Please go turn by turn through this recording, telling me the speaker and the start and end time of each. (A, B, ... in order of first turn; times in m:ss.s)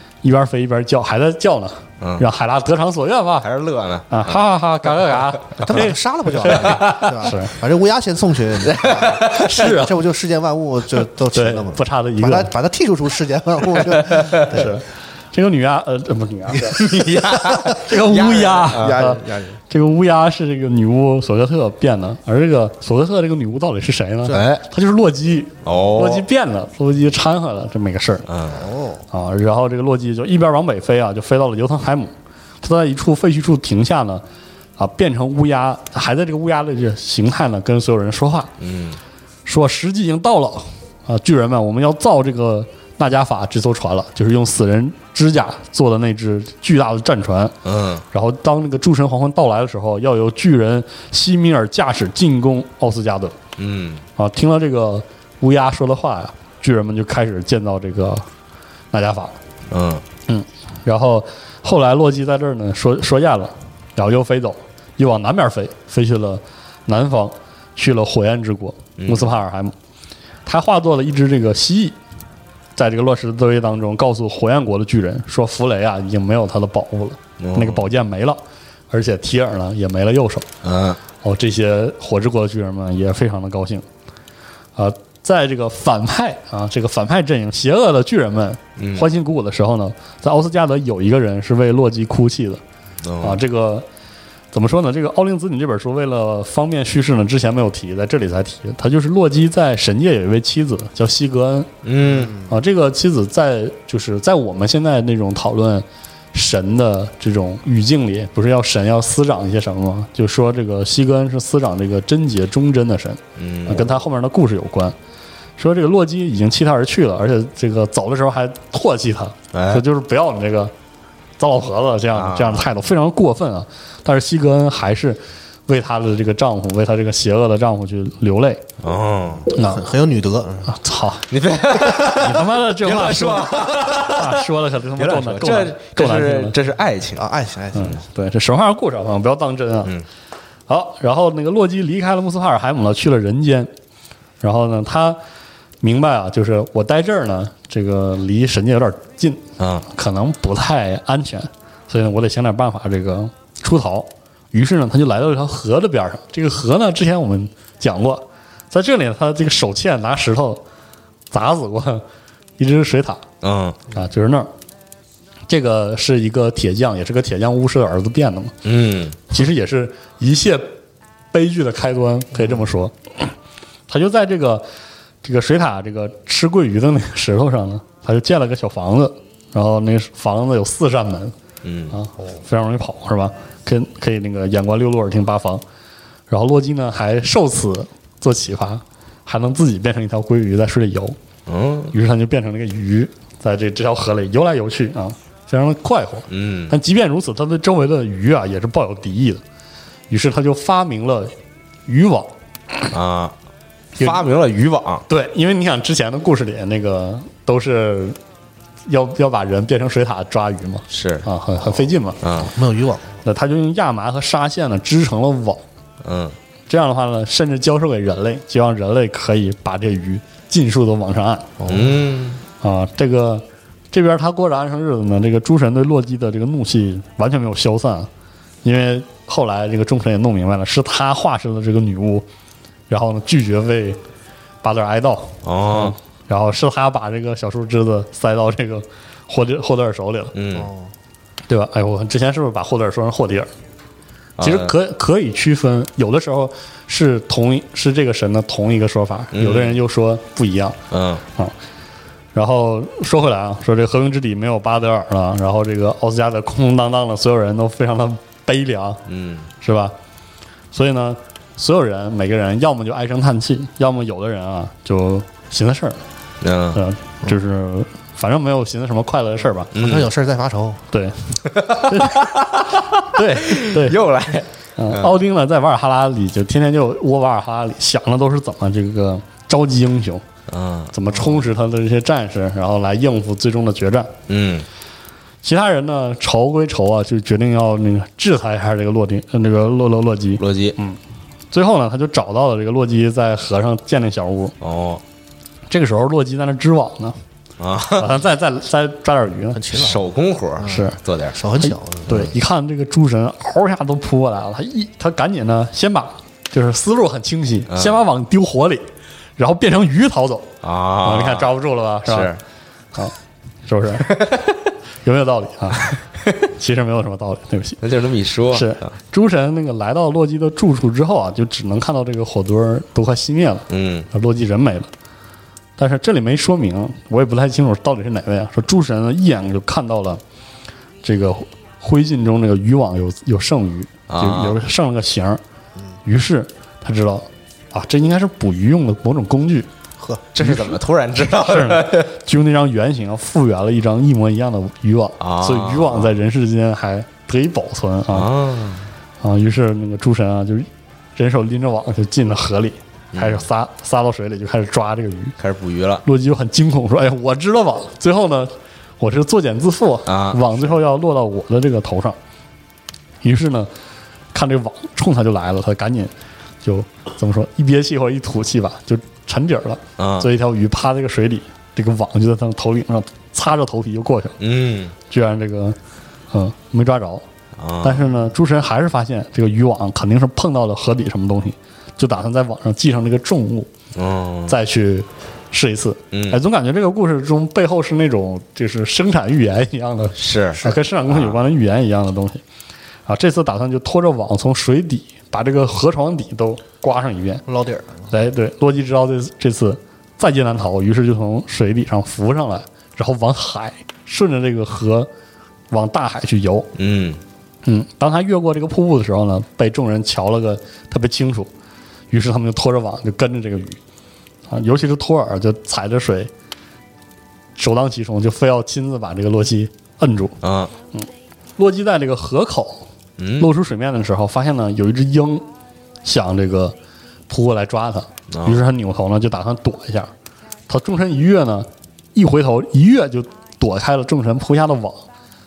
0:00.2-0:03.5 A
0:03.4-0:04.4 B
0:04.1-0:07.5 A
0:05.6-0:14.7 C
0:08.6-0:09.5 B
0:09.2-0:10.0 A
0:11.3-0:12.5 A
0:14.1-0:14.4 B
0:14.3-0:28.2 A
0:16.6-0:19.0 B
0:18.5-0:19.6 C
0:24.2-0:24.6 C
0:24.3-0:24.6 B
0:25.6-0:26.2 B
0:28.3-0:28.6 B
0:28.5-0:29.0 C
0:29.1-0:34.2 A
0:34.8-0:38.5 A
0:38.6-0:39.0 B
0:39.4-0:47.6 A
0:47.6-0:48.0 B
0:48.1-0:53.4 A
0:53.6-0:54.0 B
0:54.2-0:58.2 A
0:58.9-0:59.4 A
0:59.7-1:00.0 B
1:00.3-1:09.7 A
1:09.0-1:09.3 B
1:10.4-1:12.0 A
1:12.8-1:18.4 A
1:17.4-1:17.8 B
1:18.9-1:20.5 A
1:20.6-1:21.0 B
1:21.2-1:23.8 A
1:24.8-1:32.6 A
1:28.8-1:29.1 B
1:33.0-1:33.4 B
1:33.2-1:33.8 A
1:34.5-1:41.7 A
1:41.8-1:42.3 B
1:42.1-1:42.5 C
1:42.4-1:55.0 A
1:53.4-1:53.8 B
1:55.6-2:00.7 A
1:59.5-1:59.8 B
2:01.4-2:08.6 A
2:02.1-2:02.7 B
2:08.8-2:09.5 B
2:09.4-2:10.8 C
2:09.5-2:09.8 A
2:10.7-2:11.3 A
2:11.3-2:14.4 B
2:11.8-2:16.5 A
2:15.0-2:17.3 B
2:17.2-2:18.0 C
2:17.7-2:19.9 A
2:20.7-2:23.7 A
2:24.4-2:25.2 A
2:25.8-2:40.6 A
2:29.6-2:29.8 B
2:41.3-2:42.0 A
2:42.6-2:43.2 A
2:43.4-2:43.8 B
2:43.9-2:44.5 A
2:45.5-2:48.5 A
2:48.6-2:49.3 B
2:49.3-2:50.8 A
2:51.3-2:53.3 A
2:53.9-2:54.6 A
2:55.2-3:01.4 A
3:01.6-3:02.0 B
3:01.9-3:05.6 A
3:06.3-3:11.2 A
3:11.5-3:11.9 B
3:11.9-3:19.4 A
3:16.3-3:16.7 B
3:20.1-3:21.3 A
3:21.9-3:22.3 A
3:22.9-3:23.3 B
3:24.0-3:25.0 B
3:25.1-3:28.2 A
3:28.8-3:32.2 A
3:30.9-3:31.2 B
3:32.2-3:32.5 B
3:32.4-3:33.2 C
3:33.2-3:35.6 A
3:36.0-3:36.3 B
3:36.7-3:41.5 A
3:41.6-3:42.0 C
3:41.6-3:42.4 B
3:42.6-3:48.1 A
3:48.6-3:52.2 A
3:52.9-3:54.0 A
3:54.6-4:00.3 A
3:55.4-3:56.0 B
4:00.3-4:00.7 B
4:00.5-4:00.9 C
4:01.5-4:03.5 A
4:04.4-4:04.7 B
4:04.4-4:10.8 A
4:09.3-4:09.8 B
4:10.9-4:11.2 B
4:12.3-4:19.0 A
4:19.1-4:19.5 B
4:19.6-4:19.9 A
4:20.7-4:26.0 A
4:26.4-4:26.8 B
4:26.7-4:29.7 A
4:29.7-4:30.8 C
4:29.7-4:30.1 B
4:30.9-4:34.0 A
4:31.5-4:35.1 B
4:34.8-4:40.2 A
4:40.5-4:40.9 B
4:40.9-4:44.1 A
4:44.3-4:44.6 B
4:45.4-4:51.0 A
4:50.4-4:50.8 B
4:51.5-4:54.6 A
4:54.6-4:55.0 B
4:55.7-4:57.2 A
4:57.6-4:58.2 B
4:57.9-4:59.6 A
4:59.5-5:00.0 C
4:59.7-5:01.4 B
5:00.6-5:02.2 C
5:00.6-5:01.0 A
5:01.6-5:08.8 A
5:09.4-5:12.3 A
5:10.6-5:11.5 B
5:12.0-5:12.4 B
5:13.6-5:14.3 A
5:14.1-5:14.5 B
5:15.0-5:17.8 A
5:17.8-5:18.9 B
5:18.5-5:24.9 A
5:23.7-5:24.1 B
5:25.8-5:30.2 A
5:31.0-5:35.4 A
5:34.1-5:34.6 B
5:36.0-5:39.7 A
5:40.0-5:40.2 C
5:40.3-5:42.1 B
5:40.4-5:48.3 A
5:45.2-5:46.1 B
5:48.1-5:48.9 B
5:49.2-5:55.4 A
5:53.1-5:53.4 B
5:55.4-5:56.0 B
5:56.0-6:02.2 A
6:00.0-6:00.6 B
6:03.2-6:03.7 A
6:04.3-6:06.1 A
6:06.6-6:14.4 A
6:10.0-6:10.3 B
6:14.4-6:14.9 B
6:15.1-6:15.8 A
6:16.3-6:17.2 A
6:17.6-6:18.1 B
6:17.8-6:23.7 A
6:23.9-6:24.5 B
6:24.5-6:32.4 A
6:26.1-6:26.4 B
6:30.2-6:31.4 B
6:33.0-6:37.4 A
6:37.5-6:38.1 C
6:38.1-6:45.1 A
6:45.7-6:46.7 A
6:46.8-6:47.2 B
6:47.6-6:51.5 A
6:52.1-6:53.8 A
6:54.5-6:56.3 A
6:57.6-7:00.4 A
7:00.4-7:00.7 B
7:00.9-7:02.8 A
7:03.2-7:03.5 B
7:03.4-7:05.4 A
7:06.0-7:06.8 A
7:07.3-7:10.1 A
7:08.3-7:08.6 B
7:10.7-7:15.1 A